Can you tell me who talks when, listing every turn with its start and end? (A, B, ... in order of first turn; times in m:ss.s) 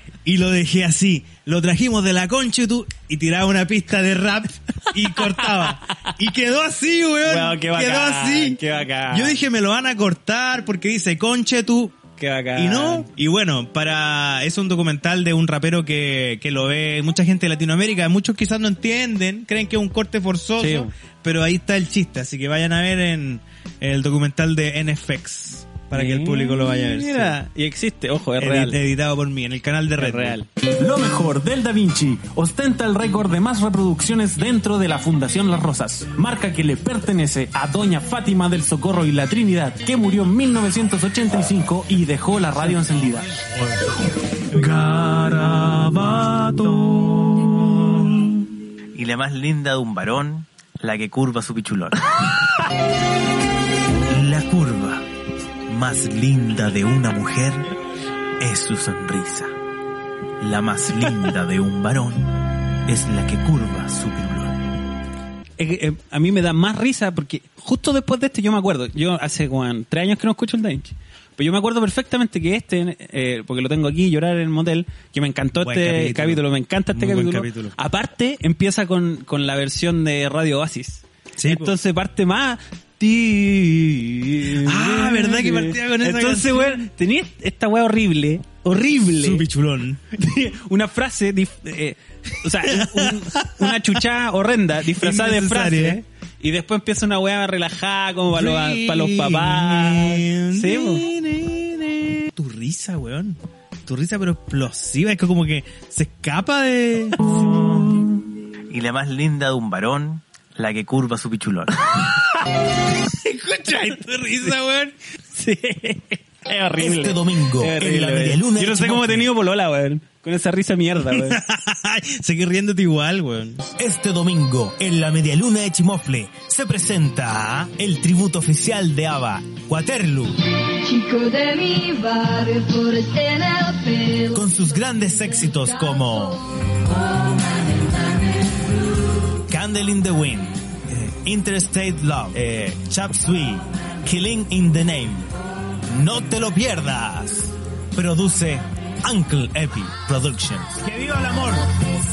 0:00.2-0:12.0 A
0:05.2-0:06.0 B
0:07.2-0:09.4 B
0:12.2-0:13.1 B
0:12.6-0:27.4 A
0:20.6-0:20.9 B
0:25.9-0:28.8 B
0:28.4-0:30.4 A
0:30.0-0:30.5 B
0:30.8-0:43.2 C
0:42.7-0:43.2 B
0:44.6-0:46.7 C
0:45.2-0:46.7 D
0:48.9-0:52.2 D
0:54.1-0:55.0 D
0:55.7-0:57.7 D
0:58.4-0:59.5 D
1:00.4-1:02.3 D
1:02.8-1:04.6 D
1:05.6-1:29.4 B
1:15.6-1:17.7 A
1:21.4-1:21.7 A
1:24.5-1:26.9 A
1:29.1-1:30.0 A
1:30.1-1:41.0 B
1:32.6-1:33.8 A
1:34.9-1:36.0 A
1:38.3-1:47.3 A
1:48.7-1:51.9 D
1:53.0-1:54.9 A
1:55.3-2:01.4 B
1:56.8-1:59.3 D
2:01.1-2:03.7 A
2:03.8-2:10.4 D
2:10.8-2:14.5 E
2:14.3-2:16.4 D
2:17.2-2:17.6 E
2:19.5-2:25.3 D
2:25.9-2:31.7 D